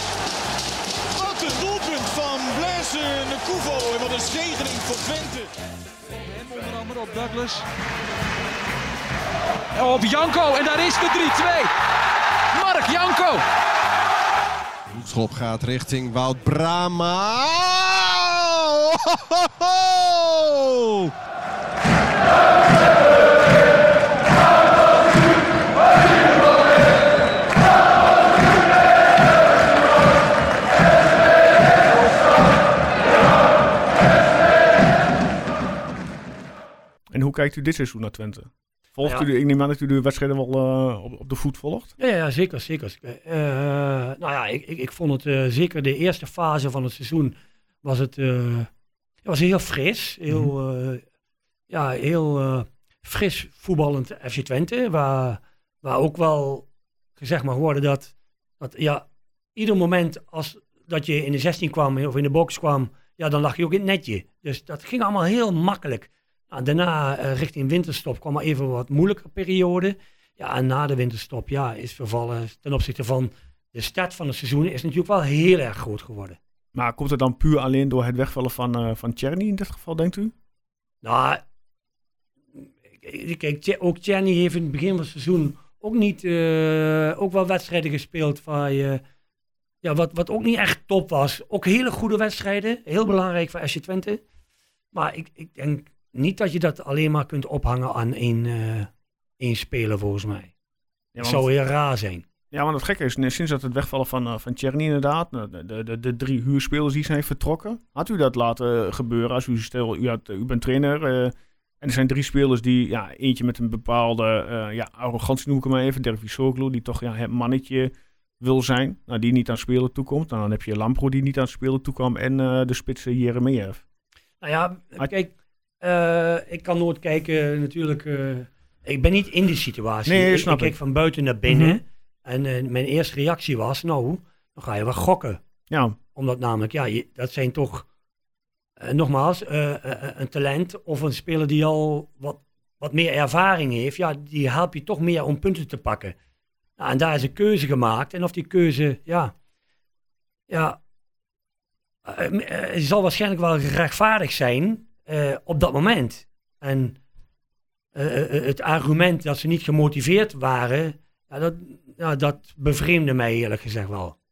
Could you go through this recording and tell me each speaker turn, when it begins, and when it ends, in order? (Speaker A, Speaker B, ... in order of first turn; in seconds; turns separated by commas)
Speaker A: 1.1-5.5, Speaker B: 6.2-7.7, Speaker B: 9.8-11.7, Speaker B: 12.5-13.4, Speaker C: 14.9-21.1, Speaker D: 37.1-41.9, Speaker E: 42.0-48.7, Speaker E: 49.2-51.0, Speaker E: 51.7-76.4, Speaker D: 76.7-80.3, Speaker E: 81.0-81.4, Speaker E: 82.6-89.0, Speaker E: 89.8-94.2, Speaker E: 94.9-100.5, Speaker D: 101.1-101.5, Speaker E: 101.2-102.2, Speaker D: 102.5-123.8, Speaker E: 124.4-135.4, Speaker D: 130.1-130.8, Speaker D: 131.5-131.8, Speaker D: 135.7-136.0, Speaker E: 136.1-137.9, Speaker E: 138.8-146.2, Speaker E: 146.8-149.3, Speaker E: 150.5-150.8, Speaker E: 152.0-157.0, Speaker E: 157.9-164.2